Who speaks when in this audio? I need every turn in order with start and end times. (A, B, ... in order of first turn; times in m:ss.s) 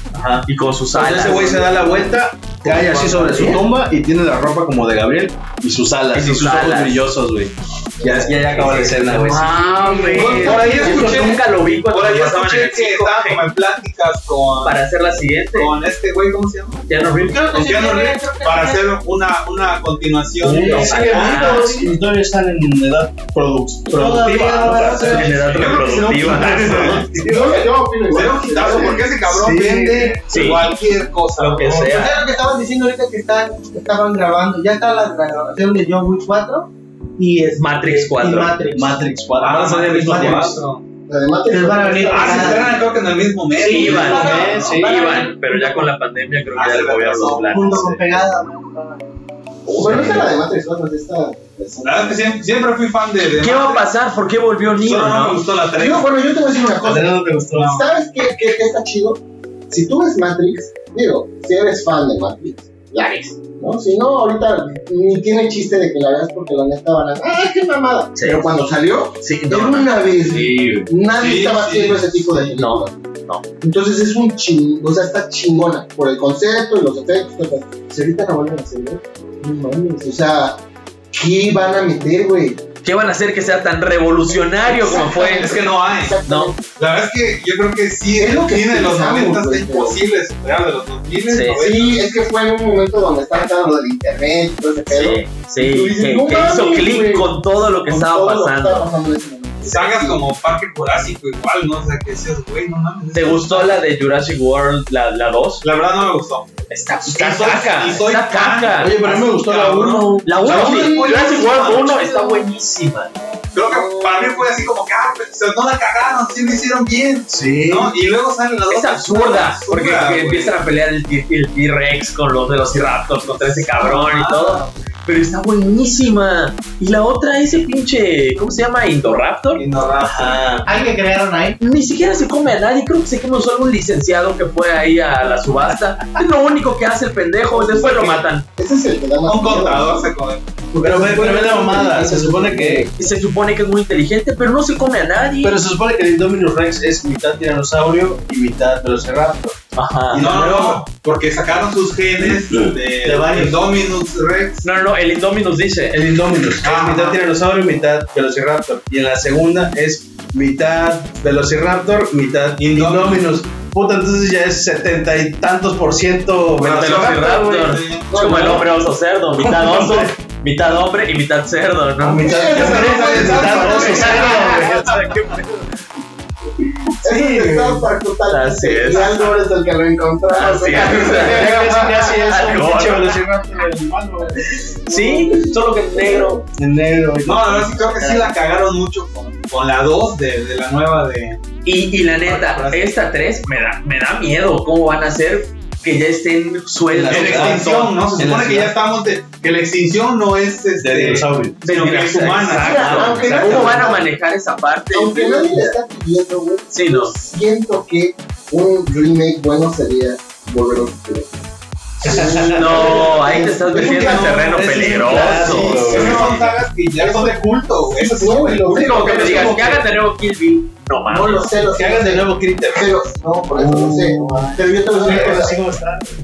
0:00.1-0:09.6 A
0:00.5-0:01.7 B
0:02.7-0:03.2 C
0:06.1-0:07.0 B
0:08.0-0:13.4 B
0:08.0-0:08.3 D
0:09.6-0:11.2 E
0:10.1-0:11.1 D
0:10.4-0:14.8 C
0:10.8-0:11.1 A
0:14.6-0:15.7 B
0:15.4-0:21.9 C
0:16.9-0:17.5 B
0:17.2-0:19.0 E
0:20.4-0:27.6 A
0:20.6-0:21.8 B
0:23.9-0:25.4 E
0:24.4-0:32.0 C
0:24.7-0:27.3 B
0:27.1-0:29.2 D
0:29.2-0:30.2 A
0:30.3-0:30.7 B
0:31.4-0:32.2 B
0:31.6-0:39.0 E
0:37.6-0:38.6 B
0:38.7-0:40.6 A
0:39.4-0:40.8 C
0:40.0-0:40.6 E
0:41.1-0:42.9 D
0:41.5-0:42.8 E
0:42.1-0:44.5 C
0:43.6-0:45.9 E
0:43.6-0:48.1 B
0:43.9-0:44.9 A
0:46.5-0:47.9 C
0:47.5-0:49.1 E
0:49.7-0:52.4 D
0:49.8-0:50.3 B
0:49.8-0:50.3 A
0:51.8-0:53.9 C
0:53.4-0:55.4 B
0:54.8-0:56.1 C
0:55.8-1:12.9 D
0:56.8-0:57.8 A
0:57.5-0:57.8 C
1:08.2-1:08.7 B
1:09.2-1:10.8 B
1:10.6-1:10.8 A
1:11.1-1:12.5 C
1:12.5-1:13.4 B
1:13.6-1:20.6 D
1:21.1-1:22.6 D
1:22.8-1:25.6 B
1:24.6-1:26.8 D
1:25.4-1:26.2 C
1:26.3-1:26.6 B
1:26.8-1:32.1 C
1:28.2-1:30.0 D
1:31.3-1:31.6 B
1:31.6-1:40.3 D
1:34.9-1:38.9 B
1:39.6-1:43.8 C
1:43.1-1:45.6 B
1:45.6-1:52.0 C
1:46.7-1:49.0 B
1:48.8-1:50.9 A
1:50.2-1:53.2 B
1:50.4-1:52.5 D
1:53.5-2:00.6 C
1:53.6-1:54.5 D
1:57.3-1:57.9 A
1:58.7-2:09.6 B
2:03.4-2:05.0 C
2:09.5-2:10.5 C
2:10.0-2:10.7 A
2:10.6-2:11.6 E
2:11.6-2:18.5 B
2:17.5-2:20.1 D
2:19.3-2:20.6 C
2:20.7-2:22.9 D
2:20.8-2:22.9 A
2:23.0-2:25.6 B
2:25.4-2:29.6 A
2:29.8-2:30.8 B
2:30.1-2:30.8 A
2:30.1-2:34.6 C
2:32.2-2:33.6 A
2:34.6-2:36.0 B
2:35.9-2:47.1 A
2:36.6-2:37.2 C
2:42.6-2:43.3 C
2:46.6-2:48.3 C
2:46.6-2:52.3 B
2:48.1-2:48.7 D
2:49.4-2:50.1 A
2:52.0-2:55.1 A
2:52.2-2:54.7 D
2:52.4-2:54.5 C
2:53.8-2:55.7 B
2:57.0-3:02.3 D
2:57.0-2:57.9 A
2:58.3-2:59.3 B
3:00.4-3:03.2 B
3:00.9-3:04.9 A
3:04.9-3:06.4 D
3:04.9-3:06.4 B
3:06.6-3:08.3 A
3:07.2-3:11.4 C
3:11.6-3:18.0 B
3:12.2-3:12.9 C
3:16.9-3:18.7 A
3:17.1-3:23.8 C
3:20.8-3:21.6 A
3:21.6-3:25.8 B
3:22.6-3:24.1 D
3:22.7-3:23.7 A
3:24.9-3:31.3 D
3:26.7-3:27.2 B
3:32.0-3:39.8 D
3:32.0-3:33.1 A
3:32.5-3:36.5 B
3:33.7-3:39.6 C
3:34.8-3:36.3 A
3:38.7-3:41.6 B
3:41.1-3:45.6 D
3:41.7-3:42.9 A
3:43.5-3:46.1 A